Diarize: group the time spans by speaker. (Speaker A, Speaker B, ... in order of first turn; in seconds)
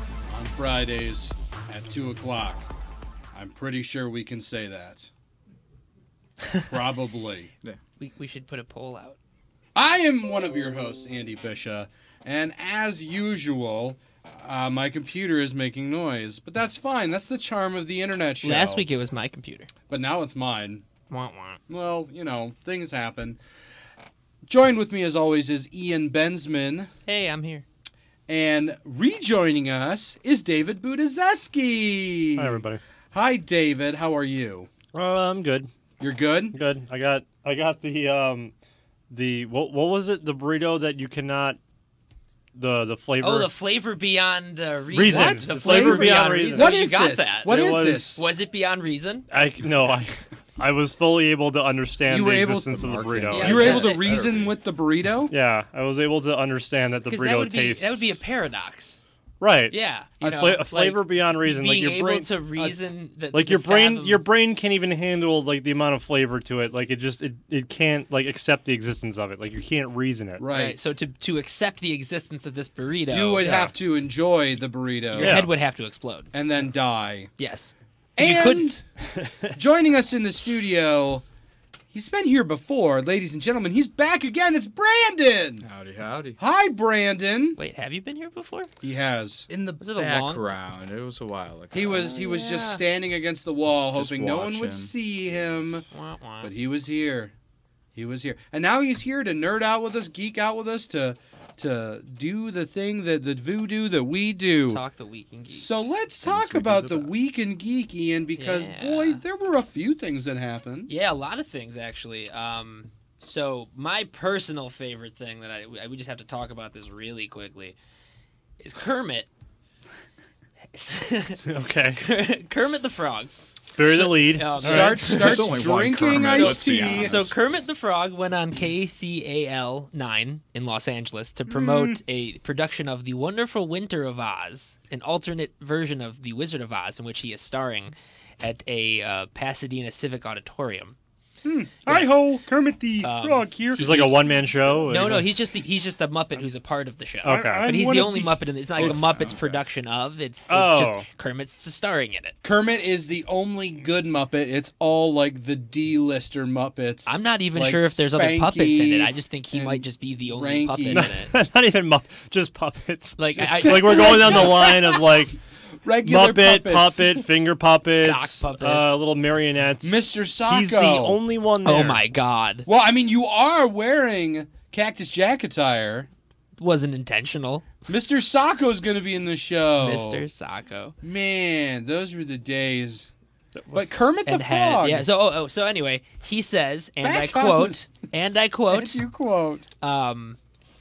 Speaker A: 0.3-2.7, 3.3-5.1, 6.7-7.5, 9.7-18.8, 19.9-20.8, 21.7-23.4, 24.4-26.9, 28.3-34.7, 36.0-36.5, 45.0-48.2, 52.1-55.3, 60.2-60.5, 70.4-70.8, 73.1-75.4, 76.3-77.3, 78.2-78.8, 79.5-81.2, 81.9-85.6, 86.4-87.6, 88.8-89.5, 91.7-95.8, 96.4-97.3, 97.9-104.8, 105.5-110.9, 124.6-127.2, 148.8-149.2, 152.4-161.1, 163.3-165.2, 165.8-167.2, 169.8-171.2, 172.7-176.1, 177.9-180.2, 181.0-183.1, 183.7-185.1, 187.0-187.9, 188.7-189.7
Speaker B: 8.0-9.2, 18.4-19.7, 21.1-21.6, 27.1-27.6, 43.2-49.2, 53.3-54.1, 57.1-59.0, 59.7-64.2, 70.5-73.7, 75.1-76.3, 77.4-78.8, 87.6-88.7, 89.8-90.5, 91.9-92.8, 95.9-96.5, 104.7-105.7, 108.3-109.2, 110.9-117.8, 118.6-119.3, 120.7-121.4, 122.0-123.3, 123.9-125.4, 126.1-140.9, 141.8-142.2, 143.0-143.5, 144.9-152.3, 157.1-161.3, 163.2-164.7, 167.9-169.0, 171.6-172.7, 176.6-177.7, 179.8-180.9, 184.2-189.1, 189.8-190.4
Speaker C: 32.4-32.8, 34.9-35.7, 36.5-38.5, 39.1-41.6, 42.5-43.5, 44.9-46.7, 47.5-48.2, 49.3-53.8, 55.3-58.2, 59.4-62.7, 63.3-70.4, 75.2-75.5, 121.5-122.0, 123.7-125.0, 143.8-145.3, 147.2-147.6, 150.5-151.1, 160.9-165.3, 166.0-172.0
Speaker D: 52.7-54.5, 85.6-86.4, 89.5-92.0, 93.9-95.7, 106.2-107.1, 125.0-127.3, 143.9-144.4, 148.7-149.6
Speaker E: 131.5-132.0, 141.4-145.1, 147.4-148.5